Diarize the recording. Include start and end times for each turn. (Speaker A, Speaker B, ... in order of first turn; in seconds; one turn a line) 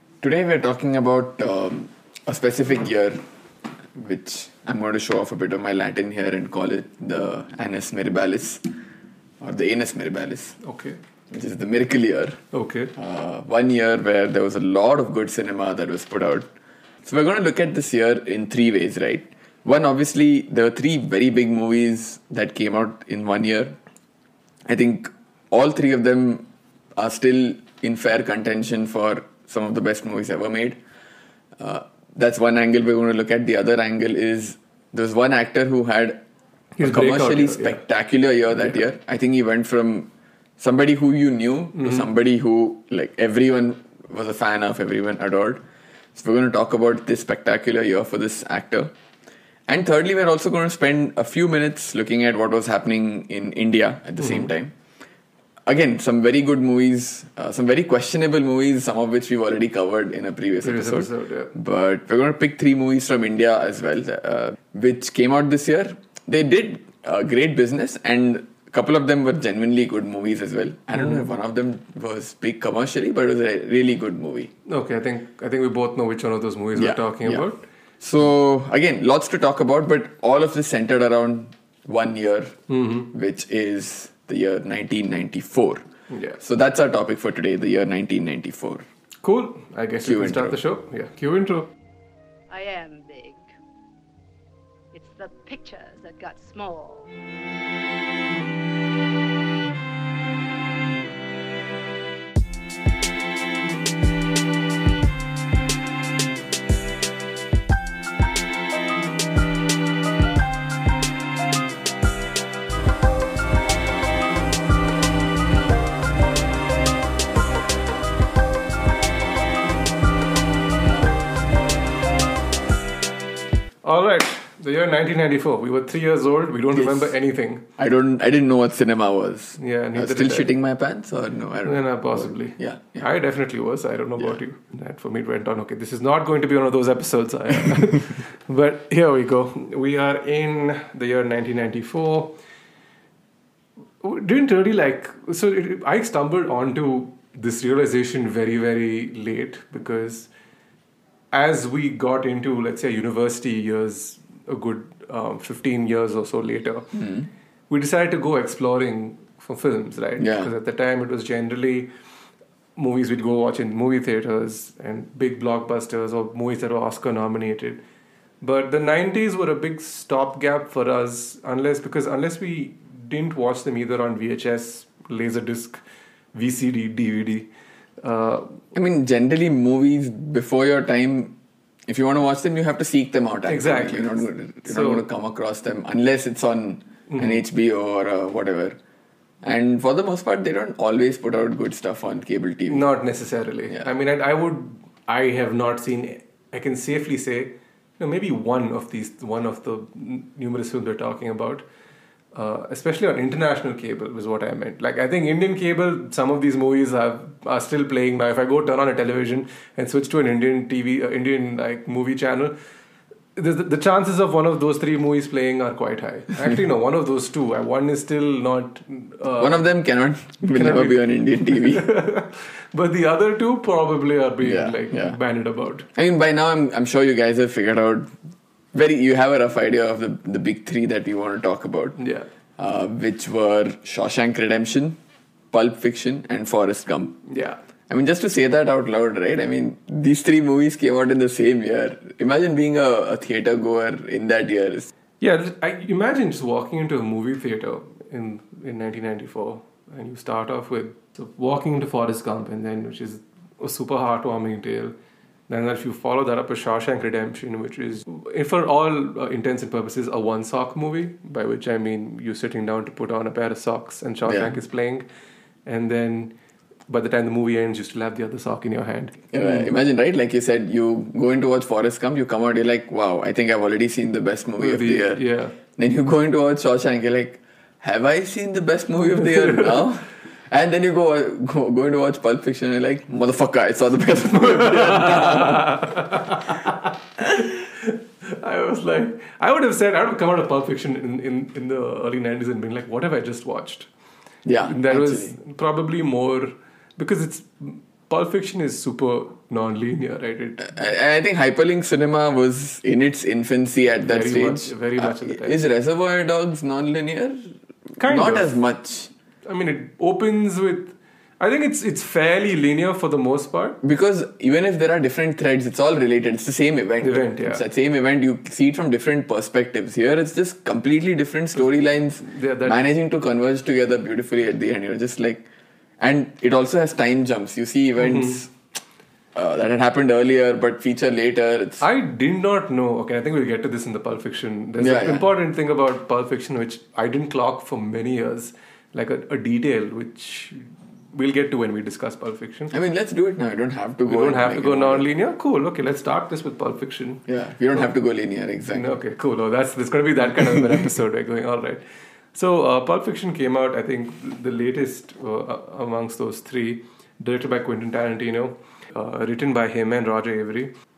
Speaker A: 0.2-3.2
Speaker A: 3.9-8.7
Speaker A: 9.4-10.6
Speaker B: 10.6-11.0
Speaker A: 11.3-12.4
Speaker B: 12.5-12.9
Speaker A: 12.9-16.5
Speaker A: 17.0-23.8
Speaker A: 24.6-30.8
Speaker A: 31.6-36.2
Speaker B: 36.8-37.8
Speaker A: 36.8-40.1
Speaker A: 40.6-45.6
Speaker B: 41.8-42.1
Speaker A: 46.1-48.9
Speaker A: 49.7-54.7
Speaker A: 55.7-74.5
Speaker B: 60.6-61.6
Speaker B: 74.7-77.6
Speaker A: 76.7-77.5
Speaker A: 78.0-82.6
Speaker B: 82.7-83.1
Speaker A: 83.1-85.8
Speaker B: 86.1-86.4
Speaker A: 86.4-88.8
Speaker B: 89.2-91.7
Speaker A: 90.0-90.6
Speaker C: 92.5-93.5
Speaker C: 94.9-97.1
Speaker B: 123.8-127.6
Speaker A: 126.7-127.2
Speaker A: 127.8-133.1
Speaker B: 129.6-130.5
Speaker B: 131.6-142.3
Speaker B: 144.0-150.3
Speaker B: 151.3-156.9
Speaker A: 156.9-157.3
Speaker B: 157.7-161.9
Speaker A: 160.2-160.5
Speaker B: 162.8-167.8
Speaker B: 168.4-175.8
Speaker B: 176.3-177.5
Speaker B: 178.0-178.6
Speaker A: 178.7-181.3
Speaker A: 181.9-188.8
Speaker B: 183.5-185.0
Speaker B: 187.1-187.4
Speaker A: 189.4-192.8
Speaker B: 192.7-201.6
Speaker B: 202.3-212.5
Speaker B: 213.3-219.6
Speaker A: 219.4-221.9
Speaker B: 220.5-225.8
Speaker A: 224.4-225.2
Speaker A: 225.9-228.1
Speaker A: 228.7-232.0
Speaker B: 232.0-232.3
Speaker A: 232.6-235.0
Speaker A: 235.5-237.2
Speaker B: 237.3-237.6
Speaker A: 237.9-244.9
Speaker B: 245.2-254.9
Speaker B: 255.5-265.0
Speaker A: 264.3-264.5
Speaker B: 265.6-266.3
Speaker B: 266.9-269.7
Speaker A: 269.3-275.2
Speaker B: 274.6-275.6
Speaker A: 275.7-285.8
Speaker B: 279.4-279.8
Speaker B: 284.4-293.9
Speaker A: 294.4-295.4
Speaker B: 294.6-300.6
Speaker A: 300.6-309.1
Speaker B: 304.1-305.6
Speaker B: 308.0-308.5
Speaker B: 309.4-313.8
Speaker A: 313.8-325.5
Speaker B: 317.0-317.6
Speaker B: 322.2-322.8
Speaker A: 326.0-328.5
Speaker B: 328.0-328.4
Speaker A: 329.3-331.8
Speaker B: 331.8-342.7
Speaker A: 334.8-335.3
Speaker A: 342.7-345.1
Speaker B: 344.1-347.2
Speaker A: 347.3-348.9
Speaker B: 348.7-351.8
Speaker B: 352.3-360.7